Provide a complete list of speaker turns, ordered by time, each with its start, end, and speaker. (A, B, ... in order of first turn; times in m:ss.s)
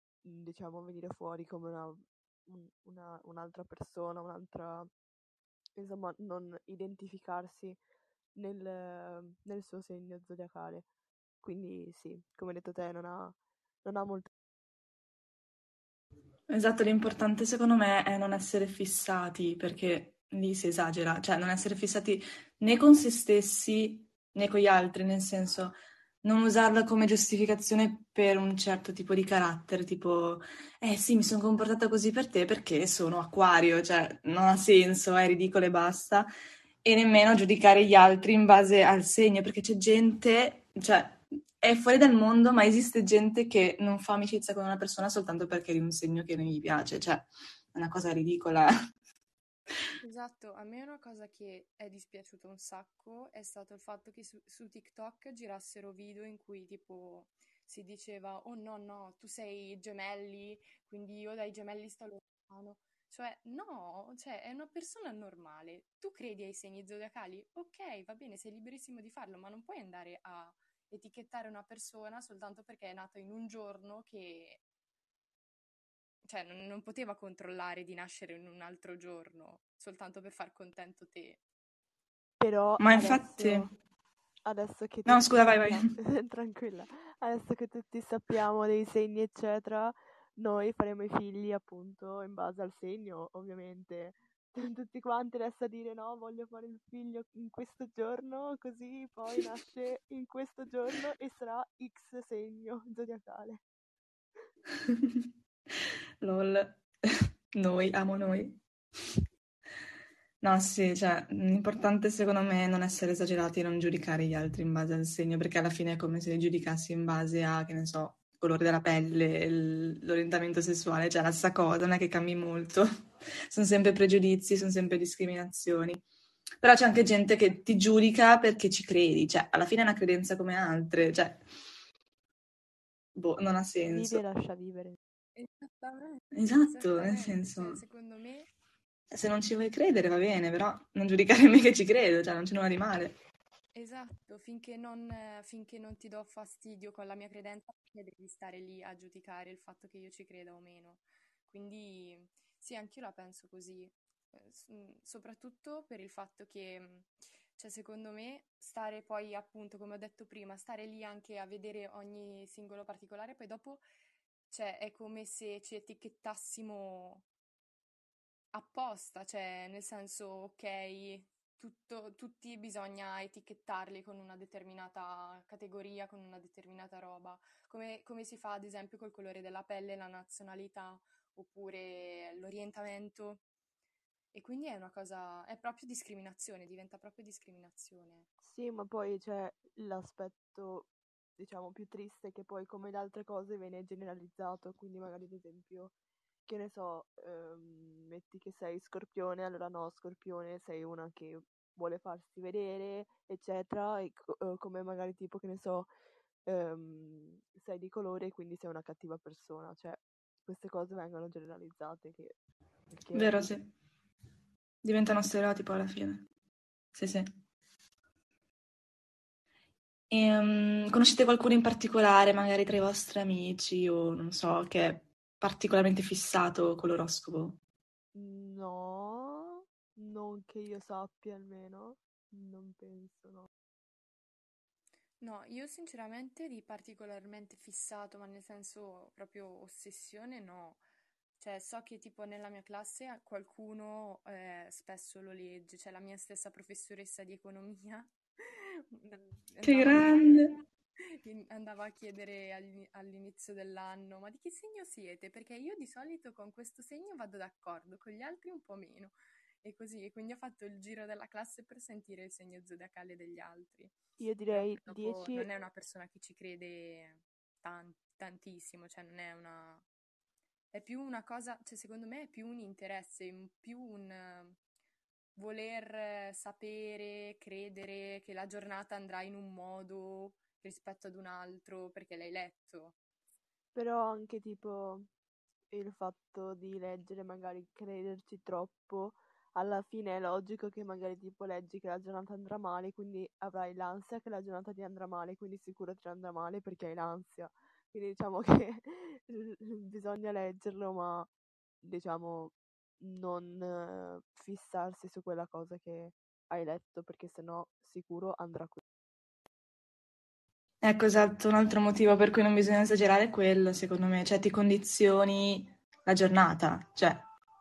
0:00.2-0:04.9 A
0:05.8-0:07.8 A
0:08.4-0:10.9 A
0:11.4-0:14.3 A
0:16.5-0:36.3 B
0:36.8-0:48.7 B
0:50.0-1:14.6 C
1:16.2-1:21.4 C
1:22.4-1:23.7 A
1:22.8-1:23.7 B
1:24.4-1:43.6 A
1:25.1-1:25.9 B
1:44.9-1:45.2 B
1:46.2-1:46.8 B
1:47.6-1:48.6 B
1:50.4-2:02.9 B
2:03.5-2:06.0 B
2:06.6-2:11.4 B
2:13.2-2:14.2 B
2:13.9-2:15.0 A
2:15.4-2:18.5 C
2:16.3-2:17.8 B
2:19.1-2:23.2 B
2:23.7-2:43.8 C
2:44.5-2:47.3 C
2:48.5-3:03.4 C
3:04.3-3:08.3 C
3:08.4-3:15.9 A
3:16.5-3:25.9 A
3:26.4-3:32.4 A
3:32.9-3:33.5 A
3:33.1-3:33.7 B
3:34.8-3:36.3 B
3:36.9-3:37.3 B
3:40.1-3:47.6 B
3:48.1-3:53.5 A
3:55.2-4:00.8 C
4:01.4-4:10.6 C
4:09.6-4:10.5 B
4:11.2-4:24.0 C
4:24.2-4:25.5 A
4:24.5-4:29.8 C
4:30.7-4:34.6 C
4:35.4-4:43.0 C
4:43.7-4:45.1 A
4:45.7-5:01.3 A
5:01.8-5:08.8 A
5:10.8-5:17.3 B